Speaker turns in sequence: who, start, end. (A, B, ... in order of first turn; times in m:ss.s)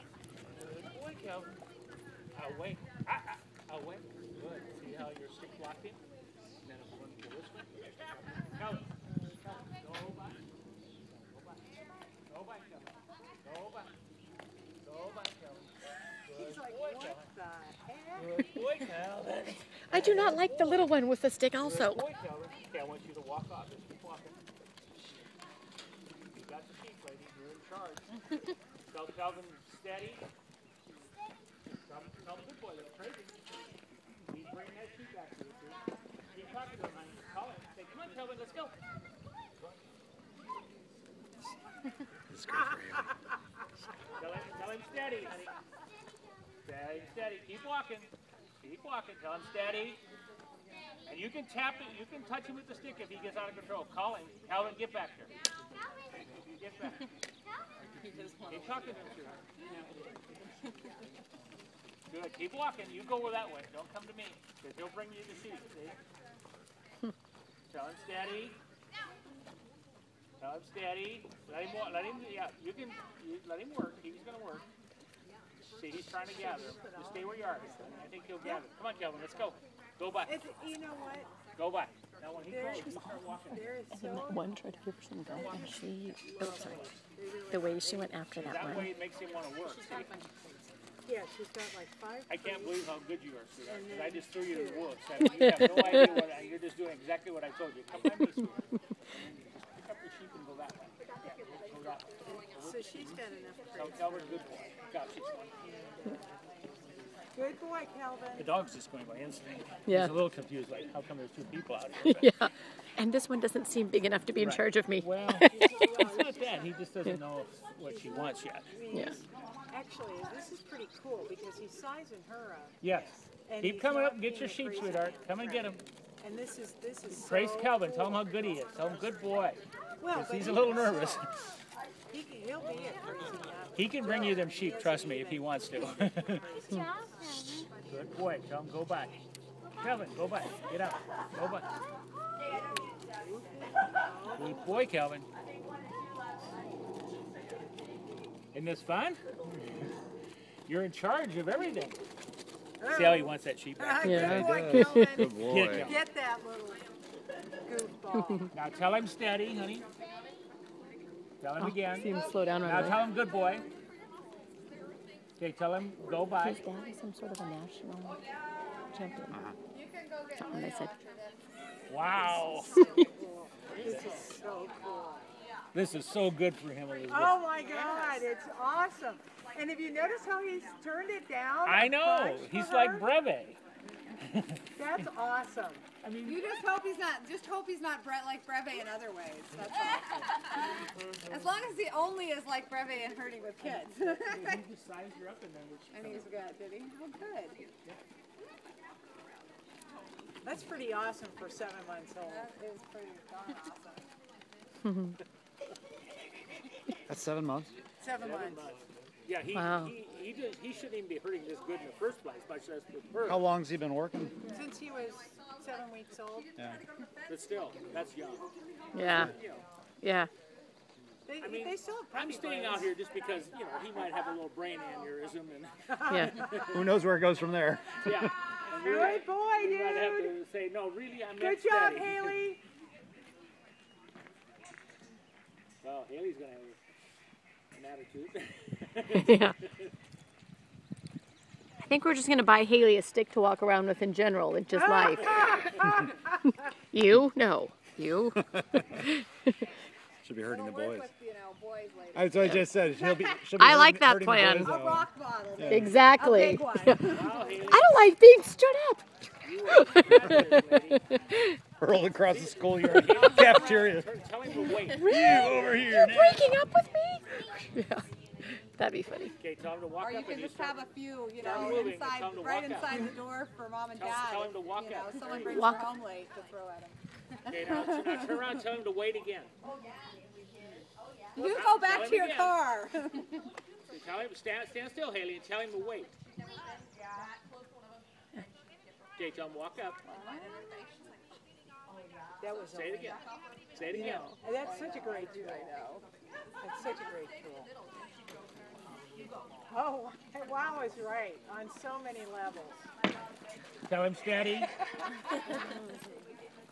0:00.5-0:01.6 A
0:02.3-0:06.0 A
0:06.6-0:10.4 A
0:11.1-0:11.6 A
0:12.3-0:13.9 A
0:14.8-0:17.3 A
0:16.3-0:18.3 B
0:18.2-0:20.8 A
0:19.9-0:22.0 C
0:21.6-0:24.4 A
0:26.3-0:28.1 A
0:28.9-0:30.2 A
0:31.6-0:33.4 A
0:34.2-0:35.8 A
0:36.3-0:38.8 A
0:42.3-0:43.1 D
0:44.2-0:45.6 A
0:46.6-0:50.0 A
0:51.1-0:55.3 A
0:56.3-0:57.1 A
0:58.0-0:58.5 E
0:58.5-0:59.4 A
0:59.6-1:00.3 E
1:02.1-1:06.0 A
1:07.7-1:08.6 A
1:10.4-1:14.6 A
1:15.7-1:20.4 A
1:20.2-1:21.3 B
1:21.6-1:23.7 A
1:22.5-1:23.0 B
1:22.8-1:26.9 C
1:23.5-1:24.6 B
1:25.2-1:28.7 B
1:25.3-1:25.8 A
1:27.5-1:28.9 C
1:28.4-1:30.1 A
1:31.0-1:32.8 B
1:32.3-1:45.4 A
1:33.7-1:34.9 B
1:42.6-1:44.5 B
1:45.6-1:46.3 B
1:47.3-1:48.5 B
1:48.4-1:52.5 A
1:49.9-1:50.1 C
1:52.0-1:55.5 C
1:54.4-1:58.7 A
1:55.5-1:56.8 B
1:57.8-2:02.8 B
2:02.8-2:05.8 A
2:03.4-2:08.2 B
2:07.1-2:09.6 A
2:10.0-2:11.2 B
2:10.1-2:11.3 A
2:12.1-2:17.1 B
2:13.7-2:16.5 A
2:16.7-2:17.7 C
2:17.9-2:19.2 A
2:19.8-2:21.7 A
2:22.5-2:24.7 B
2:24.4-2:25.3 A
2:28.5-2:29.2 A
2:30.7-2:32.0 A
2:32.8-2:36.8 B
2:32.9-2:34.6 A
2:34.0-2:35.2 C
2:34.2-2:36.0 D
2:35.2-2:36.0 A
2:37.6-2:38.5 B
2:38.5-2:39.9 A
2:41.4-2:43.7 A
2:41.6-2:43.1 C
2:42.7-2:43.1 E
2:45.4-2:46.6 A
2:46.4-2:48.2 C
2:48.8-2:49.5 C
2:49.7-2:51.2 E
2:50.4-2:50.9 C
2:51.9-2:52.8 A
2:52.1-2:55.3 B
2:52.5-2:53.1 E
2:52.7-2:53.0 C
2:53.7-2:54.4 A
2:55.7-2:57.4 A
2:57.1-3:03.1 B
2:57.5-2:58.2 E
3:01.7-3:03.6 A
3:04.2-3:04.7 A
3:04.8-3:05.8 B
3:06.0-3:06.4 A
3:06.2-3:14.7 E
3:10.9-3:11.3 A
3:13.6-3:16.3 A
3:15.9-3:17.7 E
3:20.4-3:22.5 B
3:22.2-3:24.0 E
3:24.8-3:25.2 C
3:27.1-3:27.7 D
3:28.0-3:28.7 B
3:28.2-3:33.5 A
3:29.6-3:29.9 C
3:33.2-3:34.4 D
3:34.5-3:36.6 B
3:37.3-3:38.5 A
3:38.9-3:39.4 C
3:39.1-3:39.6 A
3:39.1-3:39.3 D
3:40.0-3:40.3 C
3:41.3-3:42.9 B
3:41.4-3:46.9 A
3:45.9-3:46.6 B
3:46.1-3:46.4 C
3:46.7-3:48.3 D
3:48.0-3:52.4 A
3:48.7-3:50.4 B
3:51.4-3:52.6 B
3:55.8-3:56.8 A
3:57.7-3:59.9 A
3:59.1-3:59.6 C
4:01.9-4:05.9 C
4:06.9-4:09.5 C
4:08.4-4:08.9 D
4:10.2-4:11.1 D
4:10.4-4:13.5 E
4:12.1-4:16.0 D
4:13.6-4:14.7 C
4:14.5-4:17.8 E
4:15.7-4:19.0 C
4:17.0-4:18.1 A
4:19.4-4:21.2 A
4:19.7-4:21.6 C
4:21.8-4:24.1 D
4:22.3-4:25.5 A
4:24.7-4:29.3 C
4:25.0-4:26.6 D
4:29.4-4:33.1 A
4:30.0-4:38.5 E
4:33.9-4:35.6 A
4:35.4-4:35.9 C
4:37.5-4:39.5 A
4:41.4-4:43.5 E
4:41.4-4:42.6 A
4:43.9-4:46.1 A
4:49.2-4:50.0 A
4:50.0-4:50.8 E
4:52.4-4:53.2 B
4:52.7-4:53.2 A
4:53.7-4:54.3 A
4:53.9-4:55.7 B
4:53.9-4:56.1 E
4:56.6-4:57.7 B
4:59.7-5:02.9 B
5:03.9-5:04.8 A
5:05.3-5:06.2 E